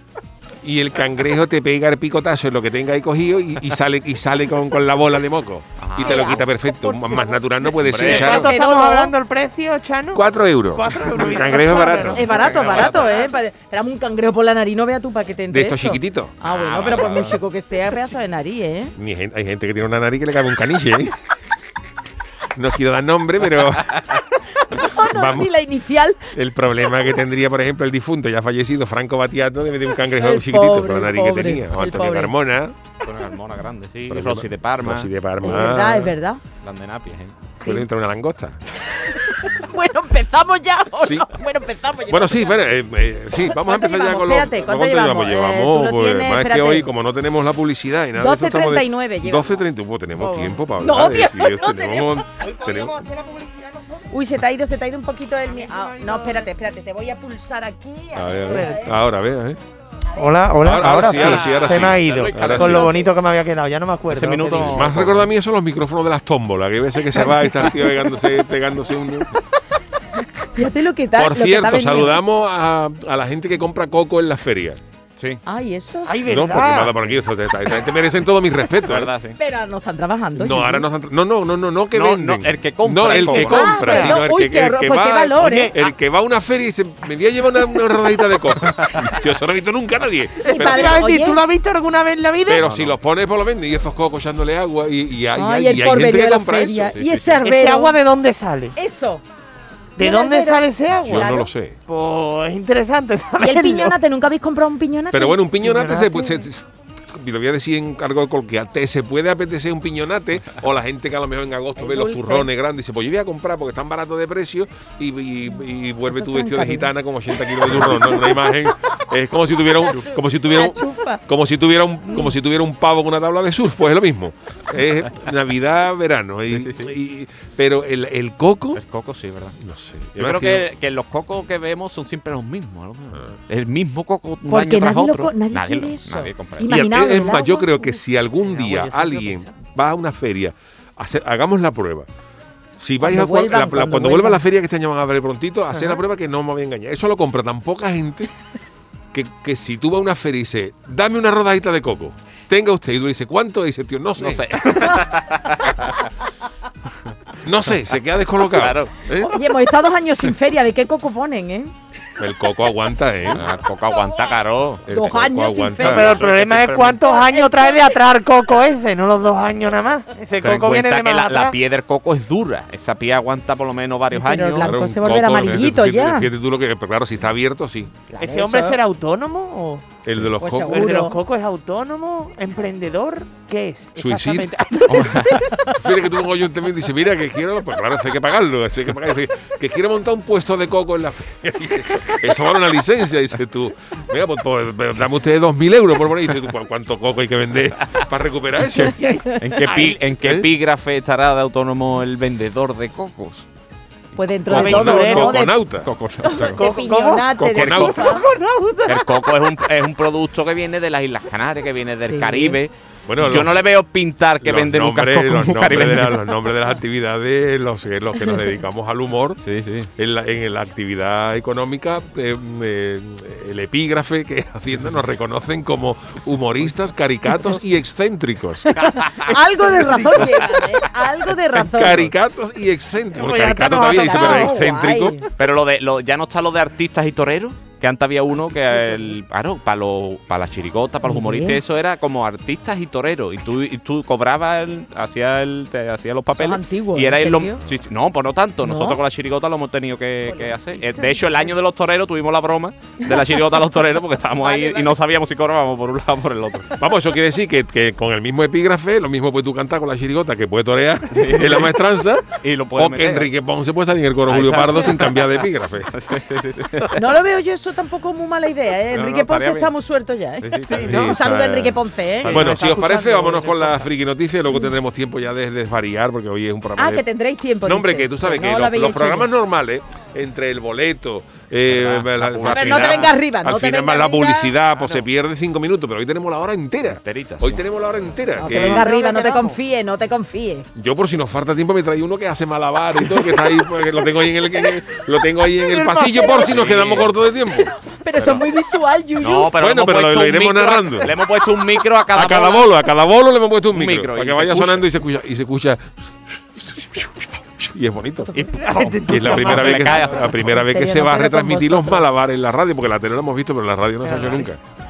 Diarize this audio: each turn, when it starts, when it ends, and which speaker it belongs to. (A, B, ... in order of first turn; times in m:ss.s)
0:00.6-0:08.5 A
0:05.8-0:06.2 B
0:06.0-0:07.7 C
0:07.8-0:08.5 B
0:08.0-0:12.4 D
0:08.2-0:09.1 C
0:10.1-0:12.3 A
0:12.0-0:13.3 B
0:12.1-0:18.9 C
0:15.5-0:17.1 A
0:16.4-0:17.4 B
0:19.0-0:21.2 A
0:22.6-0:24.2 A
0:24.6-0:26.3 C
0:25.0-0:25.5 A
0:26.3-0:32.8 A
0:30.1-0:32.3 C
0:33.0-0:35.1 B
0:34.1-0:36.2 A
0:35.4-0:36.4 C
0:36.6-0:37.4 B
0:37.6-0:37.8 C
0:37.6-0:38.6 A
0:39.1-0:42.6 C
0:41.0-0:41.3 A
0:42.1-0:53.0 A
0:43.4-0:46.9 C
0:48.2-0:49.6 C
0:50.2-0:52.2 C
0:52.4-0:54.1 D
0:54.1-0:58.9 C
0:55.5-0:56.5 D
0:58.2-0:59.6 A
0:58.5-0:58.8 D
1:00.2-1:04.9 D
1:00.6-1:02.9 A
1:00.8-1:03.1 B
1:04.1-1:05.3 B
1:04.5-1:09.3 A
1:10.5-1:12.2 C
1:11.2-1:14.8 A
1:15.5-1:16.2 C
1:16.0-1:16.9 D
1:16.3-1:19.1 A
1:18.8-1:19.4 B
1:19.4-1:20.8 C
1:20.4-1:31.1 A
1:21.9-1:23.8 B
1:23.2-1:25.7 C
1:23.8-1:24.2 D
1:25.4-1:25.8 D
1:30.4-1:32.6 D
1:30.5-1:31.4 C
1:32.5-1:37.0 A
1:32.6-1:33.0 B
1:35.4-1:38.0 C
1:36.9-1:37.4 B
1:37.4-1:38.7 D
1:38.8-1:39.2 C
1:40.0-1:41.3 D
1:40.0-1:41.5 C
1:41.0-1:41.8 A
1:41.9-1:44.0 D
1:43.4-1:45.4 C
1:45.1-2:08.8 A
1:45.6-1:46.4 D
1:51.8-1:52.5 C
1:56.1-1:56.9 C
1:59.9-2:01.2 C
2:02.1-2:02.3 C
2:06.5-2:06.9 B
2:08.8-2:09.6 B
2:09.6-2:10.7 A
2:10.2-2:16.7 B
2:14.5-2:18.0 C
2:16.6-2:22.1 A
2:18.5-2:18.9 B
2:18.7-2:19.5 D
2:22.8-2:28.3 A
2:23.0-2:24.4 C
2:29.1-2:34.8 A
2:34.2-2:36.0 B
2:37.4-2:39.4 A
2:38.5-2:38.9 B
2:39.2-2:41.7 C
2:42.2-2:43.5 A
2:43.3-2:44.9 B
2:44.9-2:46.9 A
2:44.9-2:46.1 C
2:45.8-2:51.6 D
2:46.0-2:46.8 B
2:47.0-2:48.0 C
2:50.4-2:54.7 B
2:54.1-2:56.3 C
2:54.6-2:57.9 A
2:58.1-2:58.8 C
2:58.2-2:59.9 D
3:00.0-3:01.0 A
3:00.4-3:01.2 C
3:00.7-3:05.4 D
3:04.0-3:04.5 A
3:04.9-3:05.4 B
3:05.7-3:19.2 A
3:19.4-3:23.4 B
3:19.6-3:20.0 D
3:20.2-3:20.5 A
3:24.2-3:25.6 C
3:24.5-3:25.4 D
3:24.5-3:25.9 A
3:24.8-3:25.0 B
3:25.8-3:26.6 B
3:26.2-3:28.2 C
3:26.6-3:29.3 D
3:27.4-3:28.2 A
3:27.6-3:28.1 B
3:28.9-3:36.4 B
3:32.1-3:32.6 C
3:33.1-3:33.6 A
3:34.4-3:39.4 A
3:39.4-3:39.9 B
3:40.0-3:48.8 A
3:48.8-3:52.1 C
3:48.8-3:49.2 B
3:49.3-3:50.4 D
3:51.5-3:55.2 A
3:53.2-3:54.6 D
3:53.6-3:55.2 C
3:55.4-4:16.8 B
4:01.0-4:01.6 C
4:06.3-4:07.6 C
4:08.6-4:09.0 C
4:10.3-4:11.2 C
4:14.4-4:15.0 C
4:16.8-4:26.0 A
4:21.1-4:21.8 B
4:22.4-4:23.3 B
4:24.3-4:27.0 B
4:26.9-4:32.5 C
4:28.9-4:29.7 B
4:30.4-4:31.6 B
4:30.7-4:31.0 D
4:30.8-4:31.6 A
4:32.2-4:32.5 B
4:32.2-4:37.0 A
4:32.3-4:33.7 D
4:36.8-4:39.3 C
4:37.6-4:48.9 A
4:41.7-4:43.2 B
4:42.5-4:44.5 C
4:46.9-4:47.6 B
4:48.4-4:50.7 C
4:48.5-4:49.6 D
4:50.8-4:58.4 A
4:55.7-4:56.5 D
4:56.1-4:56.5 C
4:56.3-4:57.1 B
4:57.6-4:59.5 C
4:59.2-5:02.7 B
4:59.5-5:01.2 A
5:02.1-5:08.4 A
5:03.7-5:04.9 B
5:08.3-5:10.3 B
5:08.6-5:10.2 D
5:09.1-5:14.6 A
5:10.3-5:12.1 C
5:14.1-5:14.4 D